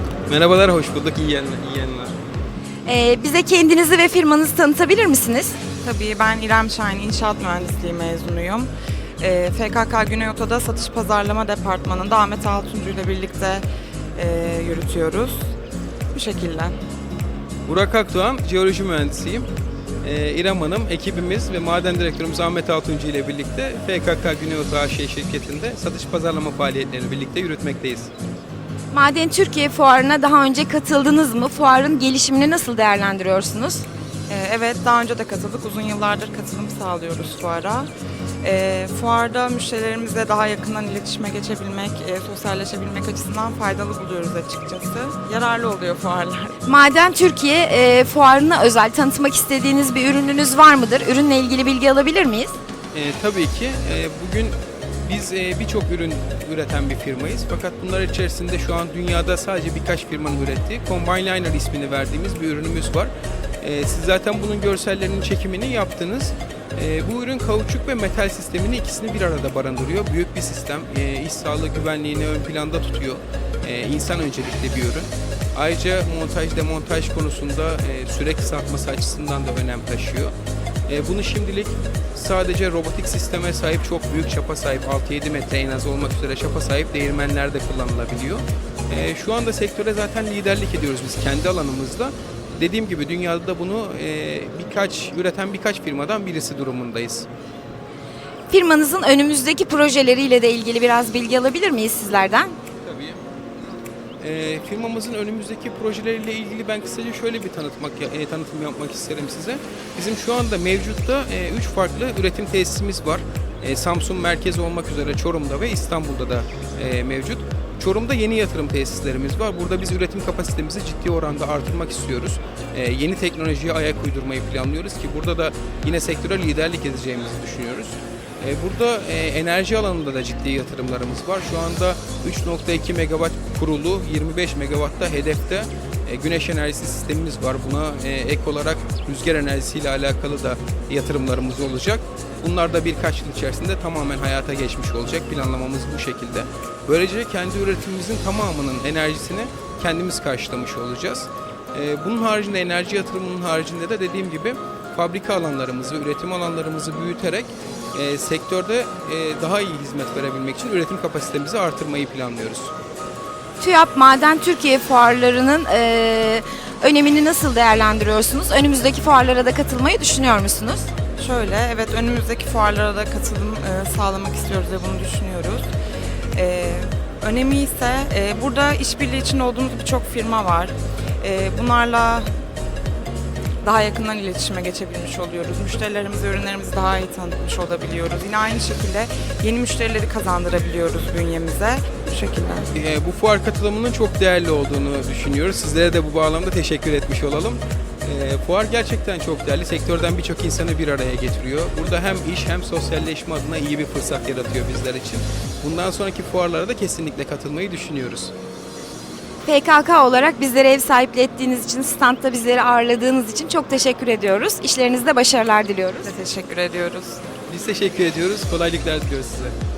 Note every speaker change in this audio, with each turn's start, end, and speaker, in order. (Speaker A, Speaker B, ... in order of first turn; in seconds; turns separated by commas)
Speaker A: 0.3-2.1, Speaker B: 2.9-5.5, Speaker C: 5.8-15.4, Speaker C: 16.1-16.8, Speaker A: 17.7-19.5, Speaker A: 20.0-28.1, Speaker B: 28.9-33.8, Speaker C: 34.3-37.9, Speaker C: 38.4-46.5, Speaker B: 46.6-52.5, Speaker A: 52.9-80.3, Speaker A: 80.9-97.3, Speaker B: 98.5-102.5, Speaker A: 102.8-103.2, Speaker A: 104.2-162.7, Speaker B: 163.6-170.8, Speaker C: 171.2-175.7, Speaker C: 176.3-182.3, Speaker C: 183.6-192.7, Speaker A: 192.7-208.3, Speaker B: 209.4-216.1, Speaker C: 216.0-217.2, Speaker A: 217.5-219.5